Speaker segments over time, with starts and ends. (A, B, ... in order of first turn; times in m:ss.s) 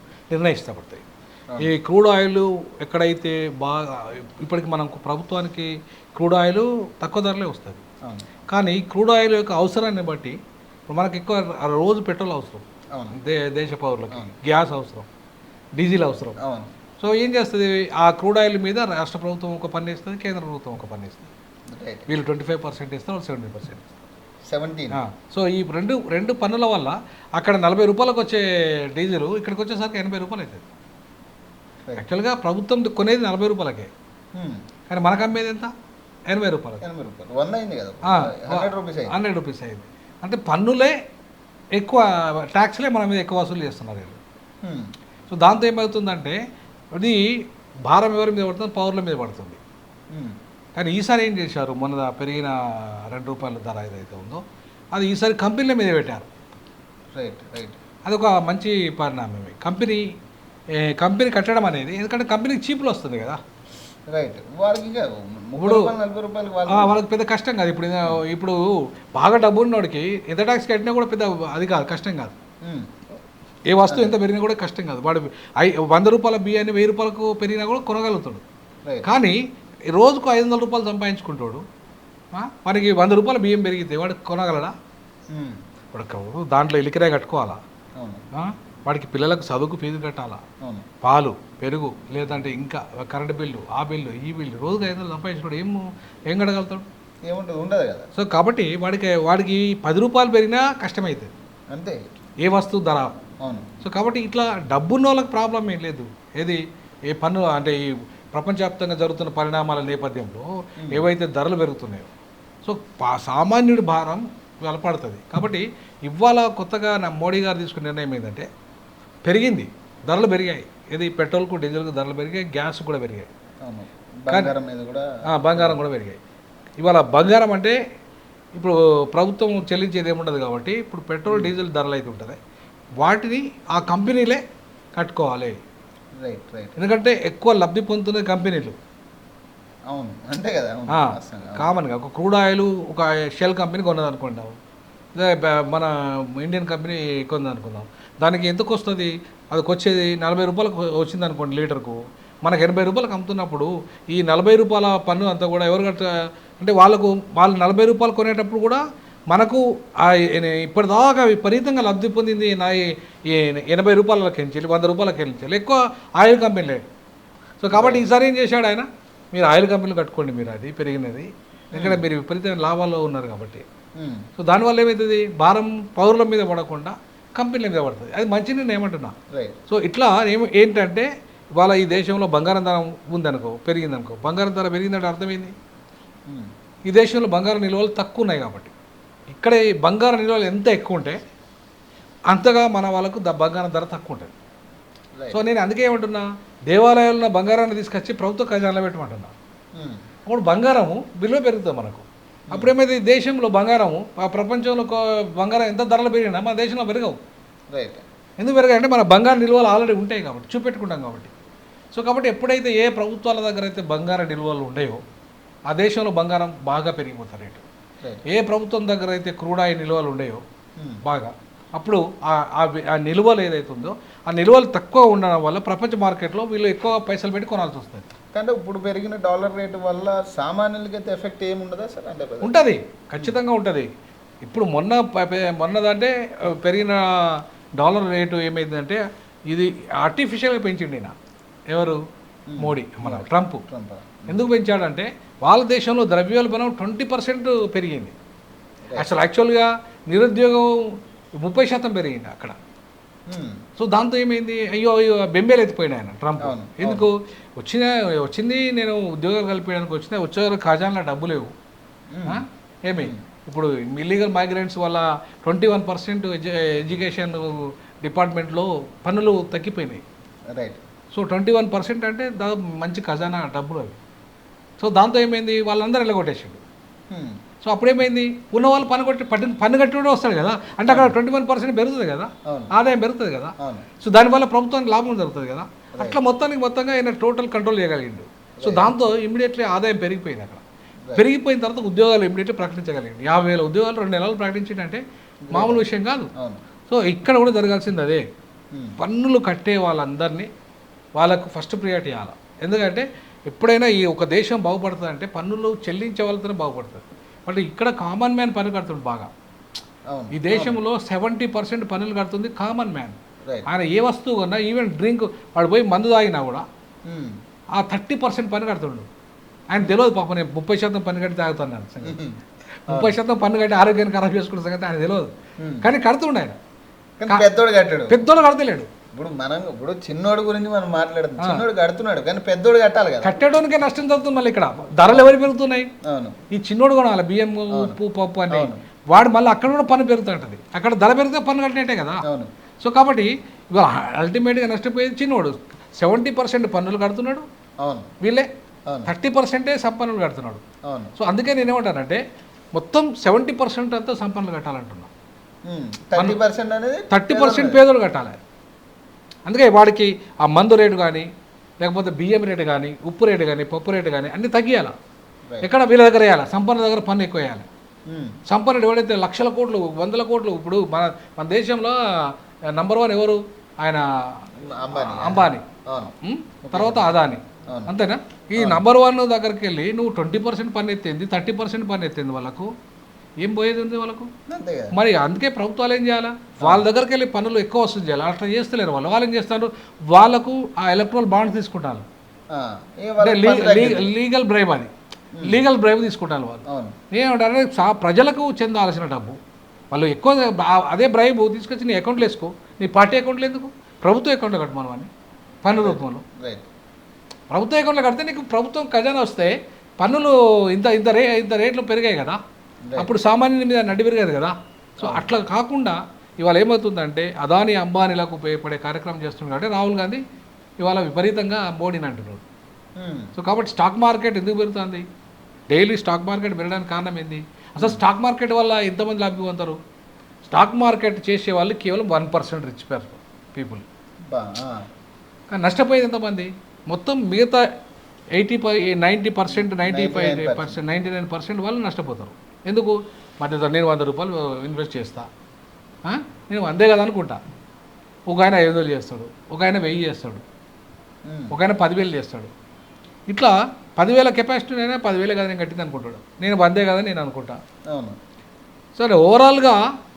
0:00.3-0:01.0 A
0:01.6-0:07.8 A
0:08.5-0:10.4 A
0:10.9-0:15.1 A
0:15.8-0:16.4 A
0:16.4-0:16.7 B
0:17.0-0:21.3 A
0:21.7-0:22.1 B
0:22.1-0:23.9 A
0:24.5-0:25.0 B
0:24.9-0:30.6 A
0:32.0-0:33.9 A
0:34.4-0:34.6 B
0:34.9-0:35.7 A
0:36.3-0:36.8 A
0:36.8-0:39.2 B
0:38.1-0:40.9 A
0:41.7-0:44.2 A
0:44.6-0:44.9 B
0:45.3-0:46.4 A
0:46.9-0:47.2 A
0:47.9-0:49.6 A
0:50.8-0:54.4 A
0:54.9-0:56.3 A
0:57.2-0:57.8 B
0:58.0-1:00.0 A
1:00.8-1:03.4 A
1:04.1-1:07.0 B
1:05.6-1:05.9 A
1:06.7-1:12.4 A
1:12.6-1:13.1 B
1:13.7-1:18.4 A
1:13.9-1:14.1 B
1:19.0-1:19.4 A
1:19.9-1:21.6 A
1:22.3-1:24.7 A
1:25.3-1:25.6 B
1:25.9-1:27.6 A
1:28.0-1:28.2 B
1:28.3-1:30.4 A
1:31.0-1:36.9 A
1:37.3-1:38.1 B
1:38.2-1:41.3 A
1:41.7-1:42.0 B
1:42.4-1:43.1 A
1:43.4-1:43.7 B
1:43.8-1:52.1 A
1:52.6-1:58.5 A
1:59.2-2:03.3 A
2:03.6-2:05.8 B
2:04.3-2:04.5 A
2:05.3-2:06.2 A
2:06.8-2:07.8 A
2:08.6-2:12.4 A
2:13.0-2:14.4 A
2:15.0-2:15.6 A
2:16.2-2:16.8 B
2:16.8-2:18.8 A
2:19.9-2:21.7 B
2:20.9-2:24.6 A
2:25.2-2:46.8 A
2:47.6-2:53.7 A
2:47.7-2:48.0 B
2:51.7-2:52.0 B
2:54.0-2:54.3 B
2:54.4-2:59.2 A
2:59.3-2:59.6 B
2:59.7-3:05.5 A
3:06.9-3:08.7 A
3:09.3-3:11.2 A
3:12.3-3:14.3 A
3:15.3-3:19.3 A
3:19.8-3:20.1 B
3:20.3-3:27.2 A
3:27.7-3:28.0 B
3:28.4-3:31.3 A
3:31.9-3:35.0 A
3:35.7-3:37.6 A
3:38.3-3:40.4 A
3:41.0-3:48.1 A
3:48.3-3:52.5 B
3:52.4-3:53.9 A
3:54.4-4:01.2 A
4:01.7-4:02.0 A
4:02.5-4:04.4 B
4:02.6-4:03.6 A
4:04.3-4:08.1 A
4:08.9-4:09.2 B
4:09.0-4:12.6 A
4:13.3-4:13.6 B
4:13.8-4:21.5 A
4:16.4-4:17.1 B
4:22.1-4:22.4 B
4:22.3-4:30.0 A
4:30.5-4:30.8 B
4:31.1-4:34.0 A
4:34.8-4:36.6 A
4:37.1-4:37.4 B
4:37.6-4:50.6 A
4:40.9-4:41.2 B
4:42.5-4:42.7 B
4:43.6-4:43.9 B
4:48.6-4:48.9 B
4:51.2-4:56.3 A
4:55.5-4:55.8 B
4:56.4-4:56.6 B
4:56.9-4:58.2 A
4:58.7-4:59.0 B
4:59.0-5:00.5 A
5:01.2-5:09.3 A
5:10.1-5:10.8 B
5:10.3-5:16.7 A
5:17.1-5:17.3 B
5:17.7-5:19.1 A
5:19.7-5:22.2 A
5:22.0-5:23.1 B
5:22.9-5:26.6 A
5:25.6-5:25.9 B
5:27.2-5:28.2 B
5:28.1-5:28.9 A
5:29.2-5:33.4 B
5:31.4-5:31.6 A
5:33.2-5:35.9 A
5:36.1-5:36.4 B
5:36.5-5:42.2 A
5:38.5-5:38.8 B
5:42.2-5:42.5 B
5:42.8-5:47.4 A
5:47.8-5:48.1 B
5:48.2-5:48.5 A
5:49.1-5:50.6 A
5:50.9-5:51.1 B
5:51.2-5:52.2 A
5:52.8-5:55.1 A
5:55.7-5:57.8 B
5:57.1-5:58.4 A
5:59.5-6:01.3 A
6:01.8-6:04.9 A
6:05.6-6:07.7 A
6:08.1-6:08.4 B
6:08.5-6:15.6 A
6:14.6-6:16.1 B
6:16.2-6:22.7 A
6:16.7-6:17.1 B
6:18.6-6:18.8 B
6:23.4-6:24.3 A
6:24.5-6:24.9 B
6:24.9-6:32.1 A
6:26.6-6:26.8 B
6:32.5-6:34.1 B
6:33.2-6:39.4 A
6:36.7-6:37.0 B
6:39.9-6:45.1 A
6:45.6-6:46.2 A
6:45.8-6:46.7 B
6:47.5-6:52.4 A
6:53.0-7:00.2 A
6:55.0-6:55.3 B
7:00.8-7:02.4 A
7:03.0-7:03.3 B
7:03.4-7:05.0 A
7:05.7-7:09.8 A
7:10.5-7:13.8 A
7:14.3-7:14.8 B
7:15.5-7:17.6 A
7:18.4-7:25.3 A
7:19.5-7:20.8 B
7:26.0-7:27.4 A
7:28.3-7:30.4 A
7:31.3-7:31.6 B
7:31.5-7:32.5 A
7:33.3-7:37.6 A
7:37.9-7:38.2 B
7:39.0-7:39.8 A